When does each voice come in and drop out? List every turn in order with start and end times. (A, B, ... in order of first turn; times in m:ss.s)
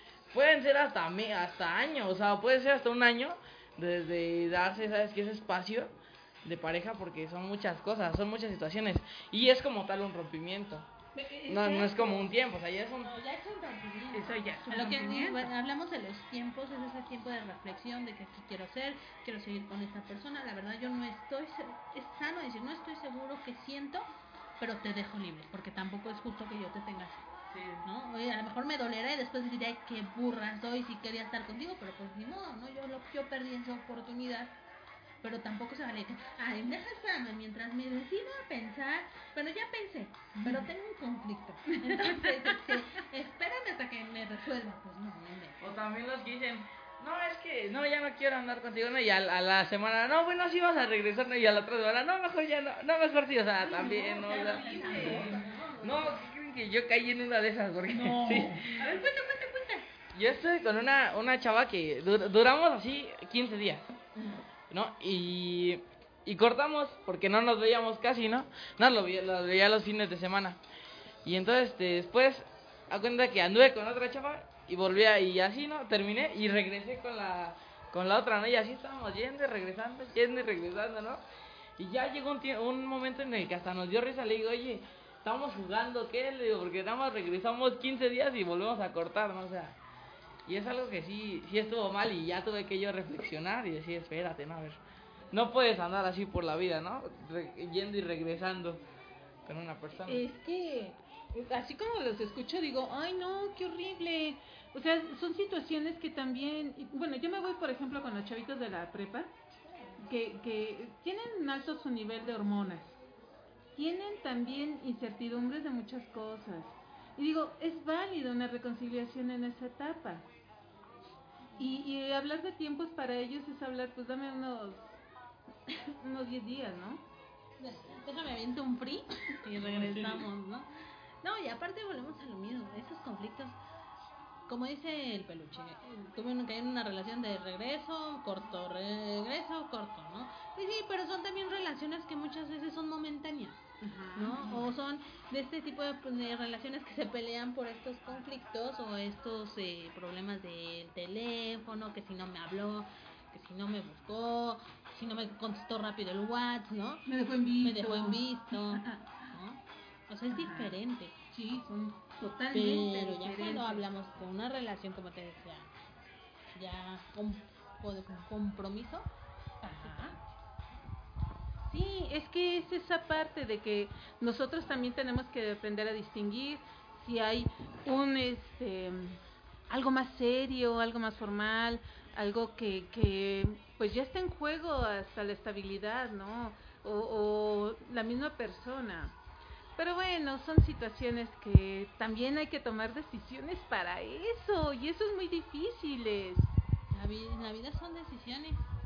0:00.3-0:05.9 A
0:06.4-0:10.9 A
0:11.2-0:12.2 B
0:11.5-0:13.2 A
0:13.0-0:24.1 C
0:14.1-0:15.5 B
0:24.6-0:27.3 C
0:27.5-0:27.8 A
0:27.8-0:34.6 C
0:35.2-0:45.6 C
0:40.4-0:40.7 B
0:41.7-0:42.8 B
0:45.6-0:58.8 A
0:53.6-0:56.2 C
0:54.4-0:55.4 B
0:57.9-0:59.0 B
0:58.6-0:59.9 C
1:00.1-1:03.9 A
1:04.7-1:10.6 A
1:11.2-1:21.2 A
1:21.8-1:29.8 A
1:30.5-1:34.8 A
1:35.3-1:38.8 A
1:39.5-1:40.3 A
1:40.1-1:49.3 B
1:50.0-1:53.0 B
1:53.8-2:00.3 B
2:01.6-2:05.0 B
2:05.7-2:07.0 B
2:07.6-2:10.7 C
2:09.5-2:10.3 A
2:11.2-2:13.6 C
2:14.5-2:23.6 C
2:23.8-2:24.7 B
2:24.2-2:37.1 C
2:37.1-2:39.3 B
2:37.6-2:41.2 C
2:40.3-2:40.8 B
2:41.3-2:43.8 B
2:42.5-2:45.7 C
2:46.6-2:49.1 C
2:49.6-2:50.2 B
2:49.6-2:50.2 C
2:51.6-3:09.2 B
3:09.8-3:16.5 B
3:16.9-3:18.6 C